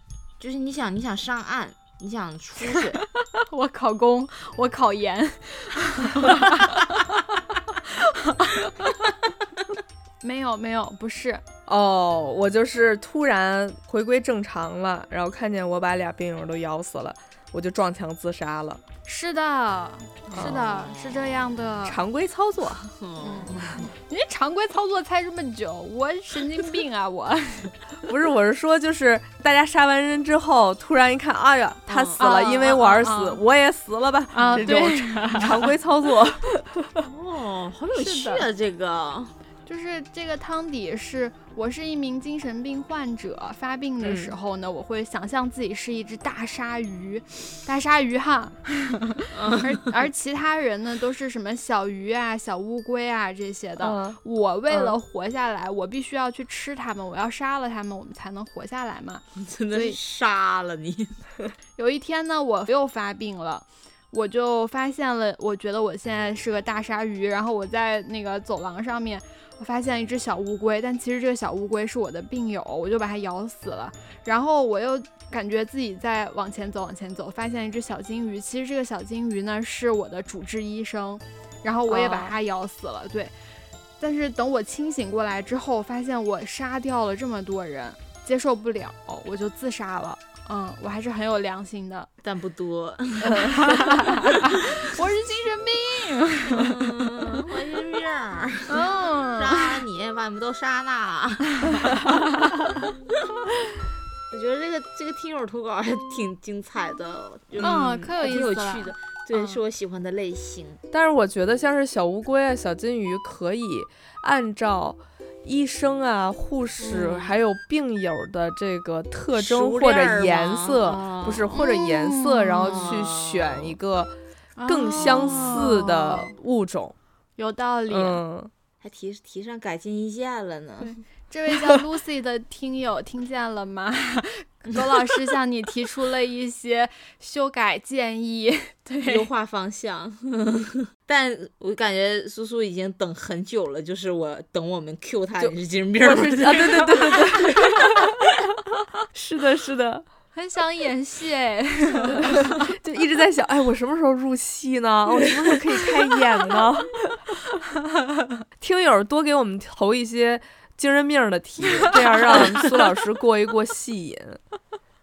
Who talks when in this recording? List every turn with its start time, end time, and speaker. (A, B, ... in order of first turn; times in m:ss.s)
0:00.4-0:03.0 A
0:02.7-0:06.8 B
0:08.0-0:08.7 B
0:10.2-0:11.4 B
0:11.7-0:18.8 C
0:19.0-0:22.0 B
0:20.3-0:20.7 C
0:20.4-0:20.8 A
0:21.8-0:22.9 C
0:23.0-0:23.9 A
0:23.2-0:27.8 B
0:28.0-0:37.0 C
0:31.9-0:32.3 A
0:32.2-0:33.4 B
0:34.3-0:35.7 B
0:37.0-0:39.3 A
0:37.9-0:38.4 B
0:39.6-1:00.0 B
0:44.0-0:44.3 C
0:49.3-0:49.9 A
0:53.8-0:54.2 C
0:59.4-1:01.2 A
1:01.8-1:23.3 B
1:21.9-1:22.3 A
1:24.0-1:32.1 B
1:32.2-1:34.6 A
1:33.3-1:36.8 B
1:36.5-1:42.1 A
1:38.7-1:39.8 B
1:44.3-1:50.8 A
1:47.6-1:49.6 B
1:50.9-2:04.1 C
1:56.9-1:57.3 A
1:59.3-2:01.5 A
2:01.5-2:02.9 B
2:02.6-2:03.8 A
2:04.6-2:06.4 B
2:04.7-2:06.9 C
2:05.0-2:05.6 A
2:07.4-2:08.2 B
2:07.9-2:08.5 C
2:08.8-2:10.9 A
2:10.8-2:19.3 B
2:19.0-2:28.2 A
2:25.4-2:28.1 C
2:29.1-2:30.0 C
2:30.3-2:32.6 B
2:32.0-2:37.4 C
2:38.6-2:44.4 C
2:42.1-2:42.6 B